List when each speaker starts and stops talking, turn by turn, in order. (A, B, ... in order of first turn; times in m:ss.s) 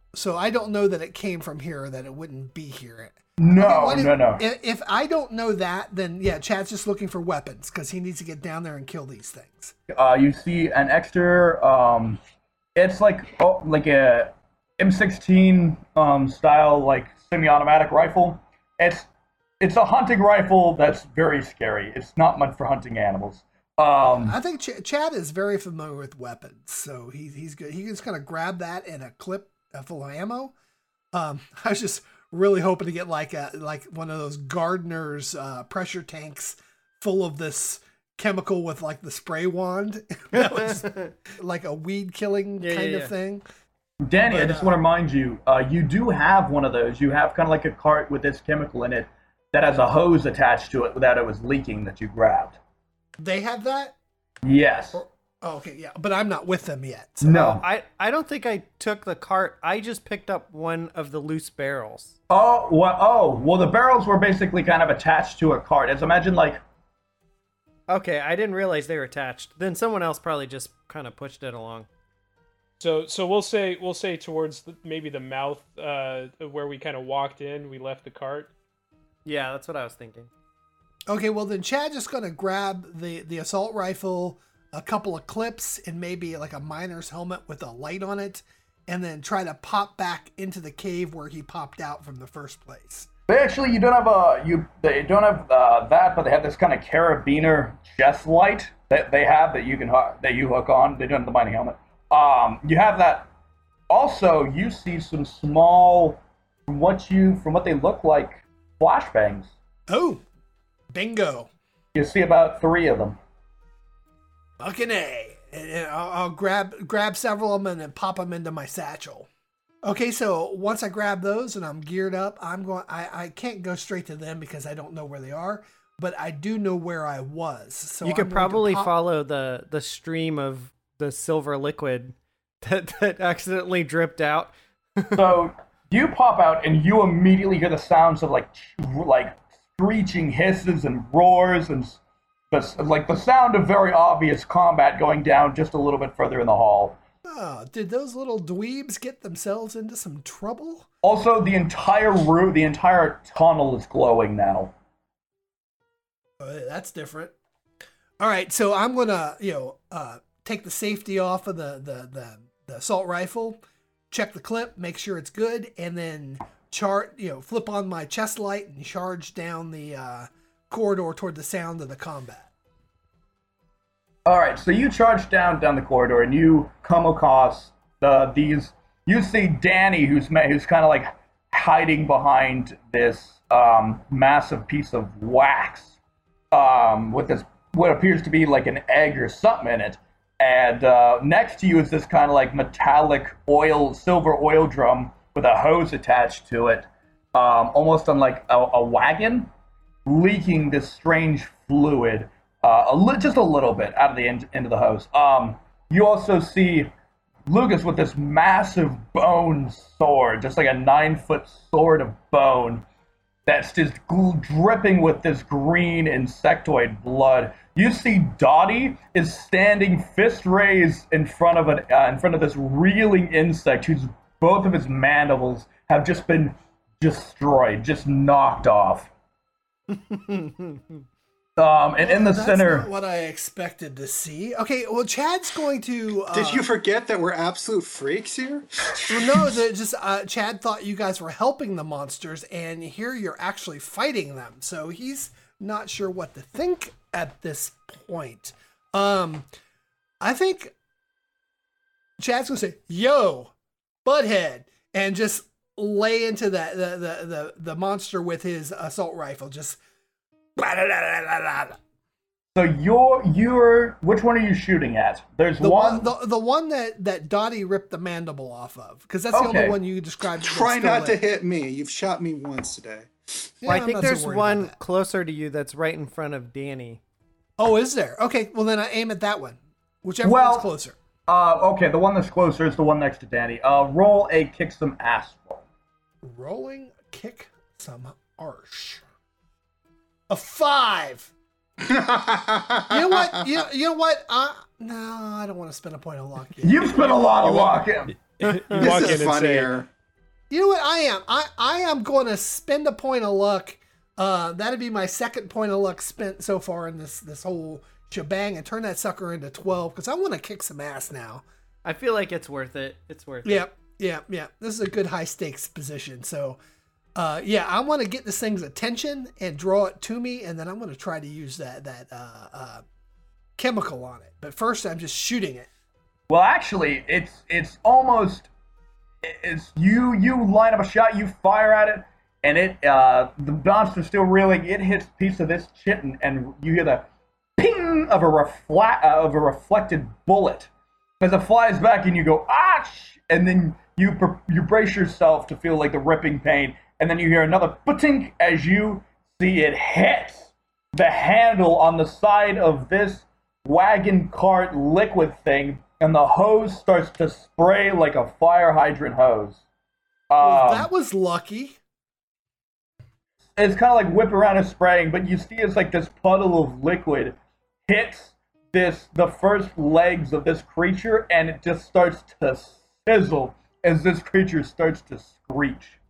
0:00.1-0:09.7 A
0:03.4-0:04.4 B
0:09.9-0:12.2 B
0:12.7-0:19.1 B
0:19.6-0:24.3 B
0:24.0-0:30.5 A
0:31.1-0:43.4 A
0:40.3-0:41.1 C
0:42.6-0:43.1 C
0:44.0-0:52.6 B
0:44.2-0:44.8 A
0:53.2-0:54.0 A
0:54.4-0:55.0 B
0:54.9-0:57.4 A
0:57.2-0:57.6 B
0:57.3-1:02.1 C
1:02.3-1:06.6 B
1:07.9-1:11.9 C
1:12.8-1:18.5 D
1:19.2-1:20.3 C
1:21.1-1:33.1 A
1:33.3-1:43.3 B
1:43.9-1:49.5 B
1:49.9-1:50.2 A
1:50.9-1:51.5 A
1:51.9-1:53.2 B
1:54.6-1:59.3 A
1:59.8-2:08.9 A
2:08.0-2:15.3 C
2:15.1-2:27.0 B
2:27.2-2:30.9 A
2:31.0-2:34.7 B
2:36.4-2:37.3 A
2:38.2-2:52.5 A
2:54.2-3:06.0 B
3:06.5-3:19.5 B
3:20.0-3:26.9 B
3:27.5-3:32.8 B
3:33.4-3:49.1 B
3:49.9-3:51.0 C
3:51.6-3:52.8 B
3:52.0-3:56.6 A
3:56.3-3:59.4 E
3:59.1-4:09.5 A
4:10.2-4:10.7 A
4:12.2-4:13.5 A
4:14.0-4:19.8 A
4:20.6-4:21.8 A
4:22.5-4:26.1 B
4:25.6-4:31.2 A
4:29.3-4:29.8 B
4:30.4-4:33.5 E
4:33.6-4:34.7 A
4:33.7-4:37.0 C
4:37.6-4:41.0 A
4:40.2-4:40.6 B
4:41.3-4:45.6 B
4:46.2-4:49.0 A
4:50.3-4:51.3 A
4:51.8-4:53.4 E
4:52.9-4:57.4 A
4:56.6-4:58.2 B
4:58.2-4:59.7 D
4:58.7-4:59.9 E
5:00.5-5:11.4 A
5:11.8-5:13.6 C
5:13.4-5:16.6 A
5:17.2-5:22.8 A
5:23.6-5:25.7 A
5:26.3-5:28.5 B
5:29.2-5:37.0 B
5:37.6-5:40.7 B
5:41.2-5:59.6 B
6:00.3-6:00.8 B
6:00.4-6:01.8 A
6:03.6-6:07.4 B
6:07.9-6:16.0 B